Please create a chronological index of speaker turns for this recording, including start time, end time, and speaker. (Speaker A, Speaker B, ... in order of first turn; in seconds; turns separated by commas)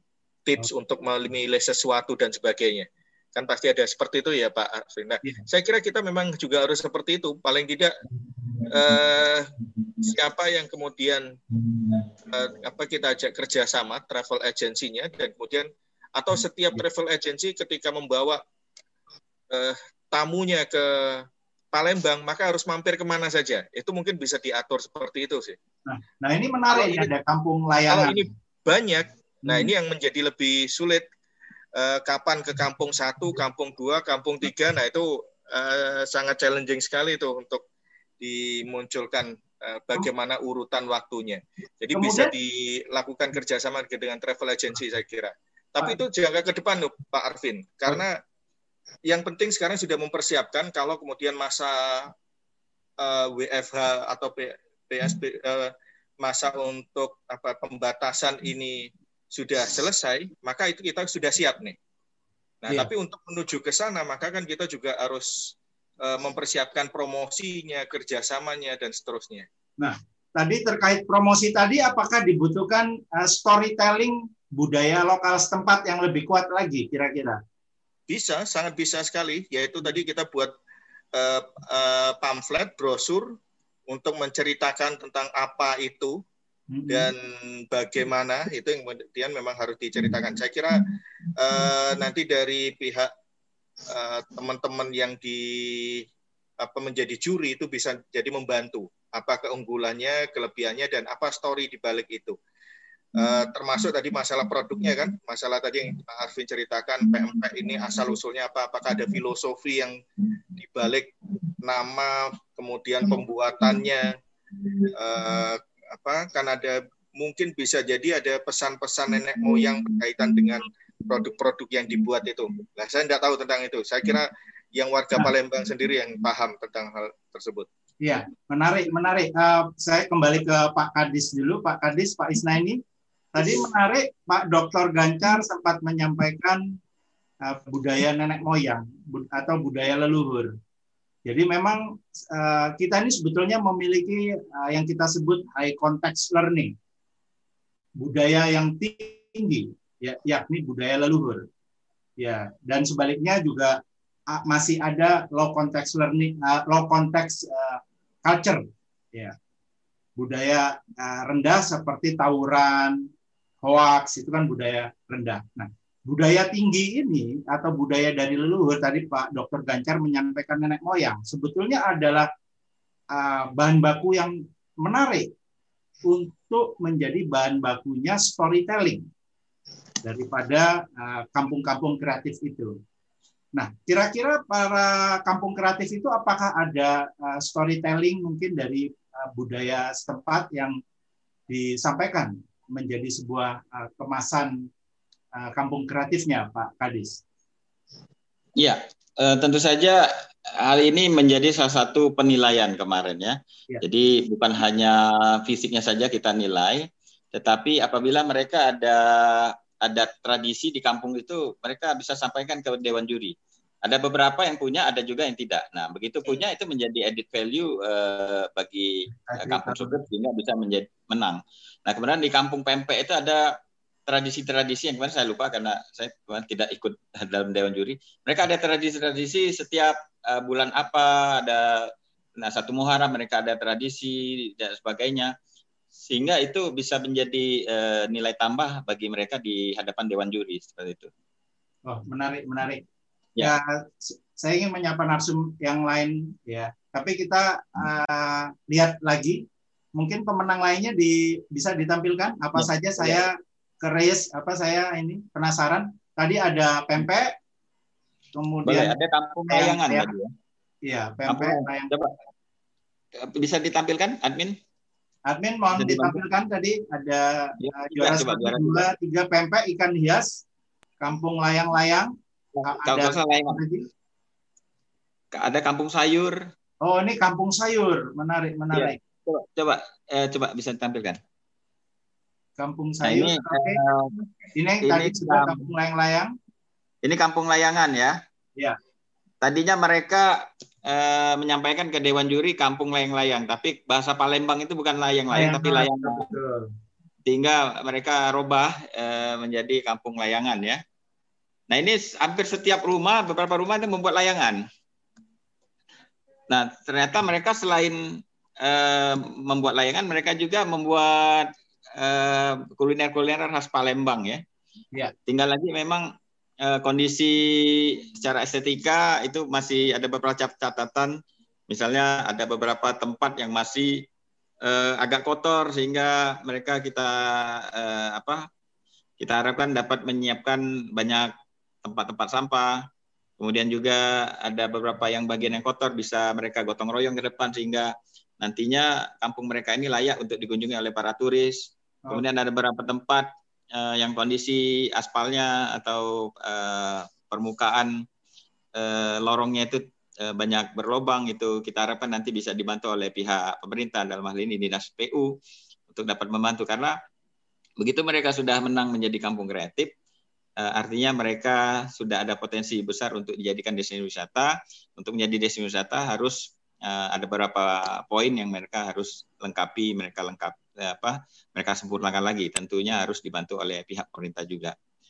Speaker A: 0.5-7.9, Speaker A: 8.7-9.5, Speaker A: 10.0-11.3, Speaker A: 12.3-18.4, Speaker A: 19.5-25.6, Speaker B: 25.9-28.2, Speaker A: 26.7-27.1, Speaker A: 27.9-31.1, Speaker A: 31.8-37.6, Speaker A: 38.2-48.2, Speaker B: 41.9-42.3, Speaker A: 49.1-52.1, Speaker A: 53.0-61.8, Speaker A: 62.6-69.5, Speaker B: 69.8-77.4, Speaker A: 78.1-80.5, Speaker A: 81.1-83.4, Speaker A: 83.9-86.2, Speaker B: 86.7-87.1, Speaker A: 86.9-93.1, Speaker A: 93.9-96.0, Speaker A: 96.6-102.3, Speaker A: 103.2-110.0, Speaker A: 110.6-114.2, Speaker A: 114.9-127.7, Speaker B: 128.0-132.8, Speaker B: 133.3-136.6, Speaker B: 137.4-140.5, Speaker B: 141.2-146.7, Speaker B: 148.0-151.4, Speaker B: 152.2-153.7, Speaker B: 154.3-158.6, Speaker B: 160.2-163.0, Speaker B: 163.6-172.3, Speaker B: 173.1-175.3, Speaker B: 176.1-179.0, Speaker B: 180.0-182.7, Speaker B: 183.5-190.7, Speaker B: 191.5-194.5, Speaker B: 195.4-197.2, Speaker C: 198.6-200.0, Speaker C: 200.6-223.5, Speaker B: 219.1-220.0, Speaker C: 224.1-235.3, Speaker C: 236.0-241.1, Speaker B: 241.9-242.8, Speaker B: 243.4-249.4, Speaker B: 250.0-253.3, Speaker C: 252.6-253.2, Speaker B: 253.8-257.3, Speaker B: 258.3-258.9, Speaker C: 258.6-260.3, Speaker B: 259.5-260.1, Speaker B: 260.9-261.9, Speaker C: 261.3-262.1, Speaker C: 263.3-264.6, Speaker B: 265.3-270.4, Speaker C: 265.8-266.2, Speaker C: 267.6-268.9, Speaker B: 271.0-272.1, Speaker C: 272.5-273.6, Speaker B: 272.7-273.8, Speaker C: 275.3-276.4, Speaker B: 276.8-279.0, Speaker C: 278.7-281.2, Speaker B: 282.6-283.8, Speaker C: 283.0-284.1, Speaker B: 284.6-286.3, Speaker C: 284.8-285.6, Speaker C: 287.0-288.1, Speaker C: 289.4-296.2, Speaker B: 295.3-296.6, Speaker C: 297.2-300.8, Speaker C: 301.7-304.6, Speaker C: 306.5-314.4, Speaker C: 315.3-316.1, Speaker C: 316.6-321.1, Speaker C: 321.7-324.1, Speaker C: 324.6-328.5, Speaker C: 329.2-331.3, Speaker C: 331.8-332.9, Speaker C: 333.4-337.9, Speaker C: 338.4-348.0, Speaker C: 348.8-355.4, Speaker C: 355.9-356.9, Speaker C: 357.8-359.9, Speaker C: 360.6-374.7